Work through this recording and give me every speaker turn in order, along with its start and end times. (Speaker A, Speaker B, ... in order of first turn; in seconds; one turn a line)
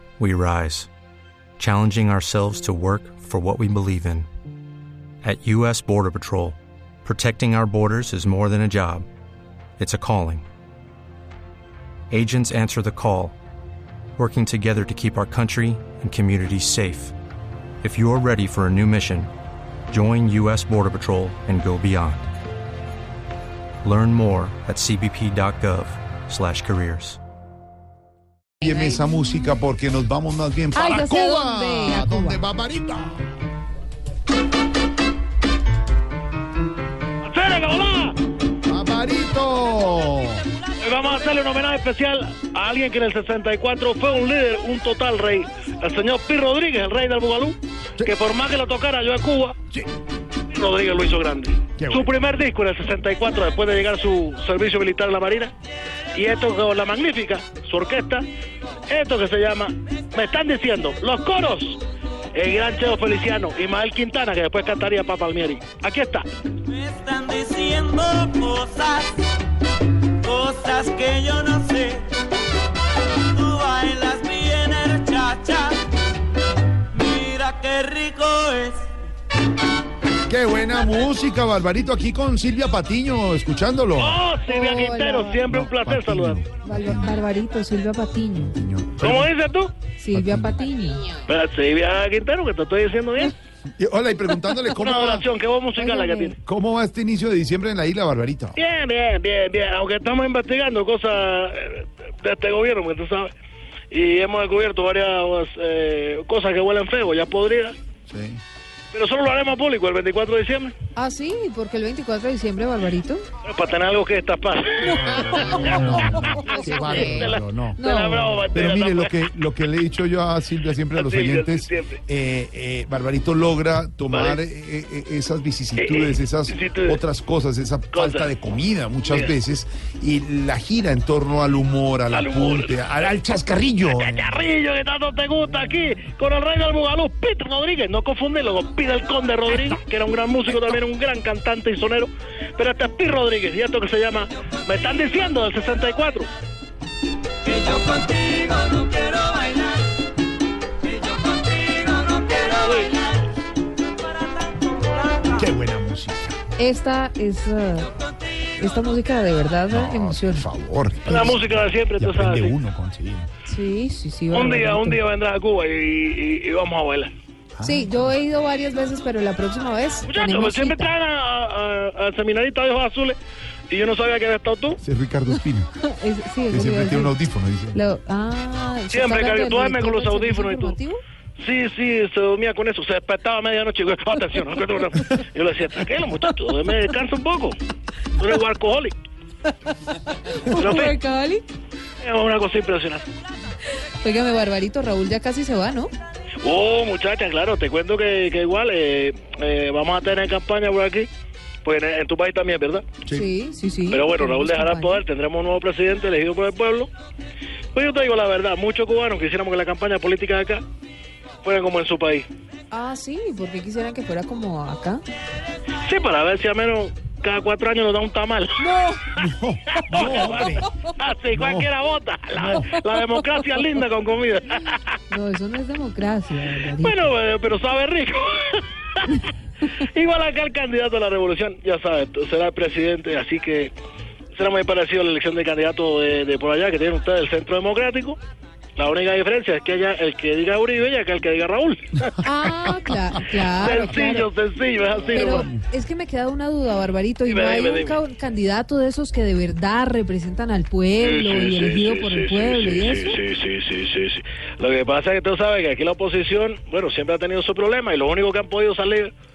Speaker A: 0.2-0.9
Speaker A: 1.6-4.3
Speaker A: 5.2-9.1
Speaker A: 9.8-10.4
Speaker A: 12.1-13.4
Speaker A: 14.2-17.1
Speaker A: 17.8-19.3
Speaker A: 19.9-22.3
Speaker A: 23.8-27.2
Speaker B: 28.6-33.3
Speaker C: 28.6-29.1
Speaker C: 30.7-32.4
Speaker D: 37.2-38.2
Speaker B: 38.6-40.5
Speaker D: 40.8-49.5
Speaker D: 50.5-55.5
Speaker B: 51.8-52.1
Speaker D: 56.1-58.2
Speaker D: 58.9-61.8
Speaker D: 62.3-66.3
Speaker E: 66.7-69.2
Speaker E: 70.2-72.1
Speaker E: 73.2-75.8
Speaker E: 76.9-78.9
Speaker B: 80.3-84.2
Speaker D: 84.0-86.4
Speaker C: 84.5-85.4
Speaker B: 85.5-87.2
Speaker C: 86.6-88.5
Speaker B: 88.5-89.3
Speaker D: 89.0-89.7
Speaker C: 90.0-91.2
Speaker B: 90.1-90.6
Speaker D: 91.3-93.3
Speaker B: 93.8-95.2
Speaker D: 94.8-96.4
Speaker C: 95.8-96.3
Speaker B: 96.4-98.6
Speaker D: 98.5-103.3
Speaker D: 103.9-107.7
Speaker B: 108.1-108.4
Speaker D: 108.9-110.7
Speaker C: 110.9-113.2
Speaker D: 113.4-119.1
Speaker B: 115.0-117.8
Speaker C: 115.1-118.4
Speaker B: 118.5-134.2
Speaker D: 120.9-122.0
Speaker D: 124.1-124.4
Speaker D: 125.8-127.0
Speaker D: 127.9-128.3
Speaker D: 132.1-132.8
Speaker D: 133.9-146.3
Speaker E: 147.5-149.8
Speaker E: 150.9-153.2
Speaker D: 152.6-153.0
Speaker E: 154.0-155.4
Speaker B: 155.3-156.4
Speaker C: 156.6-157.9
Speaker C: 158.5-160.5
Speaker B: 159.7-163.3
Speaker D: 161.1-162.6
Speaker C: 163.4-165.0
Speaker D: 164.3-167.1
Speaker B: 167.6-168.1
Speaker C: 167.6-170.9
Speaker D: 170.0-173.2
Speaker D: 173.7-174.8
Speaker B: 174.8-175.7
Speaker C: 175.8-177.2
Speaker B: 176.5-177.8
Speaker C: 177.7-181.0
Speaker D: 178.9-180.8
Speaker D: 181.4-187.6
Speaker D: 188.2-188.9
Speaker C: 189.9-191.4
Speaker D: 190.5-190.9
Speaker D: 192.0-193.1
Speaker C: 194.0-195.9
Speaker D: 196.4-201.1
Speaker D: 201.6-202.8
Speaker C: 203.1-205.0
Speaker D: 203.9-206.9
Speaker D: 207.7-210.6
Speaker D: 211.4-212.2
Speaker C: 212.7-215.0
Speaker D: 215.8-218.6
Speaker C: 218.6-219.0
Speaker B: 219.2-220.7
Speaker D: 219.8-225.0
Speaker B: 221.3-221.7
Speaker B: 222.3-222.8
Speaker C: 225.1-227.0
Speaker D: 226.8-229.1
Speaker D: 229.7-233.7
Speaker D: 234.3-238.2
Speaker D: 238.8-242.2
Speaker C: 242.2-244.3
Speaker D: 243.6-245.5
Speaker B: 245.0-245.6
Speaker C: 245.1-253.2
Speaker D: 247.2-248.0
Speaker D: 251.0-259.1